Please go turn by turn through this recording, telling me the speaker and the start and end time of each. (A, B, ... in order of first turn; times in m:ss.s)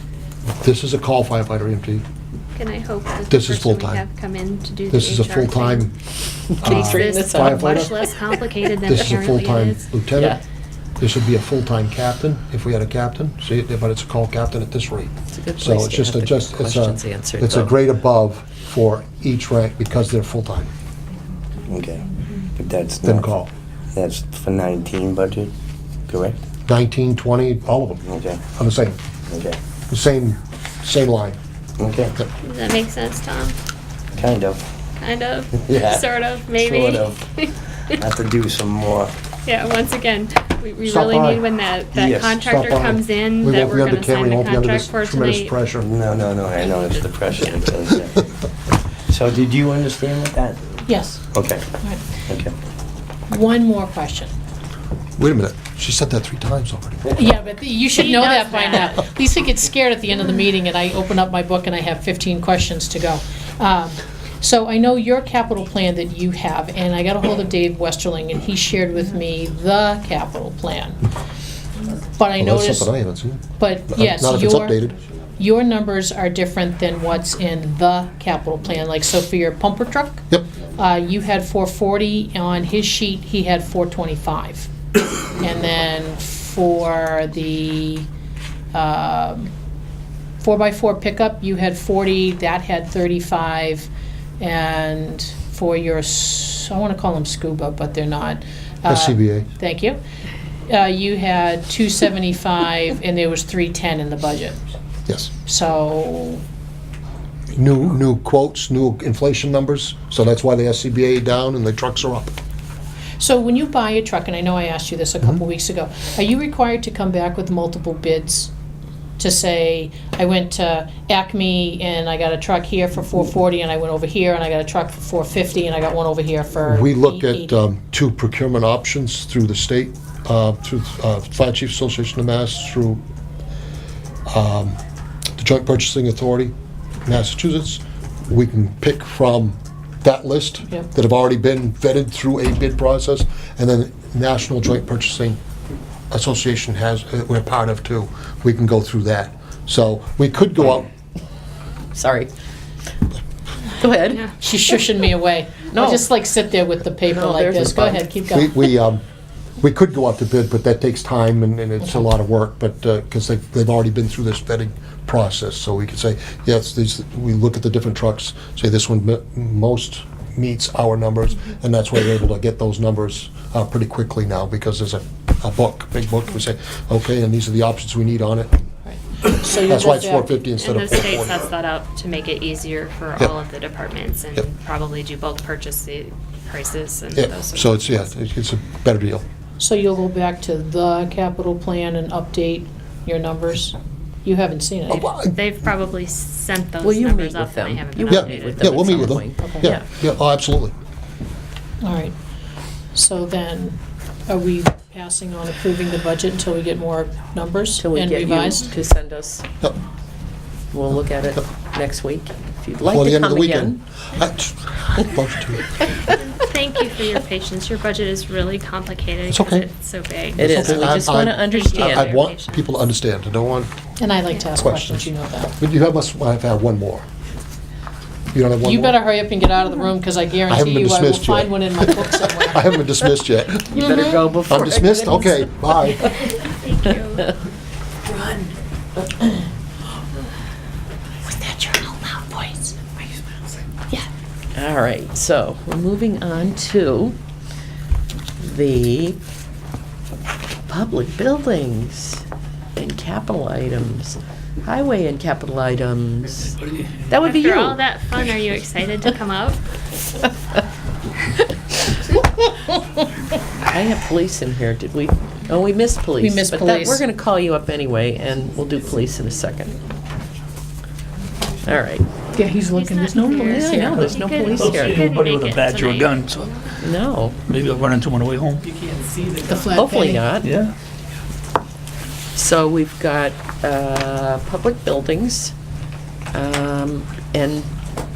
0:00.5-0:02.0 A
0:02.6-0:05.9 B
0:03.3-0:04.0 A
0:04.9-0:05.9 A
0:06.6-0:07.6 C
0:06.6-0:09.9 B
0:06.6-0:08.1 A
0:08.8-0:10.4 A
0:10.2-0:10.4 C
0:11.0-0:20.7 A
0:15.3-0:17.8 C
0:21.7-0:23.4 D
0:23.0-0:23.5 A
0:24.0-0:25.5 D
0:26.1-0:26.4 D
0:26.7-0:29.0 A
0:28.0-0:28.4 D
0:29.3-0:29.6 D
0:29.9-0:31.4 A
0:31.8-0:32.2 D
0:32.4-0:33.6 B
0:34.1-0:34.6 D
0:35.0-0:37.6 B
0:35.6-0:37.3 D
0:38.0-0:39.2 D
0:39.4-0:45.6 B
0:40.8-0:41.4 A
0:42.0-0:42.7 D
0:42.4-0:46.0 A
0:45.8-0:48.3 D
0:49.1-0:50.8 D
0:50.9-0:51.3 E
0:51.3-0:51.6 D
0:51.8-0:52.2 E
0:52.3-0:52.5 D
0:53.3-0:54.3 E
0:55.2-0:57.2 A
0:57.1-1:11.0 E
0:57.9-0:58.9 B
1:12.1-1:12.9 E
1:12.4-1:14.9 A
1:13.6-1:14.9 E
1:15.4-1:24.7 E
1:25.3-1:28.1 E
1:28.7-1:29.5 E
1:30.4-1:40.0 E
1:38.9-1:39.5 A
1:40.7-1:44.6 E
1:45.4-1:46.4 E
1:47.5-1:52.4 A
1:53.2-1:58.5 E
1:59.2-2:07.6 E
2:06.7-2:13.0 A
2:14.3-2:14.8 A
2:15.4-2:16.5 A
2:17.1-2:25.4 A
2:26.1-2:30.9 A
2:31.9-2:32.3 C
2:33.7-2:34.3 C
2:34.4-2:38.8 E
2:35.7-2:36.1 C
2:37.1-2:38.1 C
2:37.6-2:39.0 A
2:39.6-2:58.7 A
2:58.9-3:00.4 E
2:59.6-3:01.5 A
3:00.6-3:08.0 B
3:07.1-3:09.2 A
3:09.6-3:15.1 E
3:14.9-3:15.4 A
3:15.3-3:19.2 B
3:16.8-3:19.9 C
3:18.1-3:20.7 A
3:19.4-3:19.7 E
3:21.8-3:22.2 E
3:22.9-3:28.8 E
3:27.8-3:29.4 C
3:30.7-3:33.8 C
3:32.8-3:35.8 A
3:36.1-3:42.8 B
3:39.3-3:39.7 A
3:40.3-3:43.7 A
3:40.4-3:42.2 C
3:44.0-3:45.6 E
3:44.6-3:47.0 A
3:48.3-3:49.0 A
3:48.6-3:52.8 E
3:50.5-3:56.2 A
3:53.7-3:56.4 C
3:53.8-3:54.2 E
3:55.1-3:55.4 E
3:56.0-3:57.3 B
3:58.1-3:58.5 C
4:01.2-4:07.2 C
4:08.4-4:09.2 C
4:10.7-4:12.2 C
4:12.8-4:17.8 C
4:17.2-4:19.7 B
4:23.7-4:29.8 C
4:26.2-4:27.0 E
4:31.6-4:32.1 C
4:32.3-4:34.8 E
4:32.7-4:36.8 B
4:33.4-4:35.1 C
4:33.8-4:36.6 F
4:36.8-4:37.4 C
4:37.5-4:38.7 F
4:39.3-4:40.4 E
4:39.7-4:40.6 C
4:40.4-4:40.8 F
4:42.3-4:45.6 C
4:46.3-4:47.7 C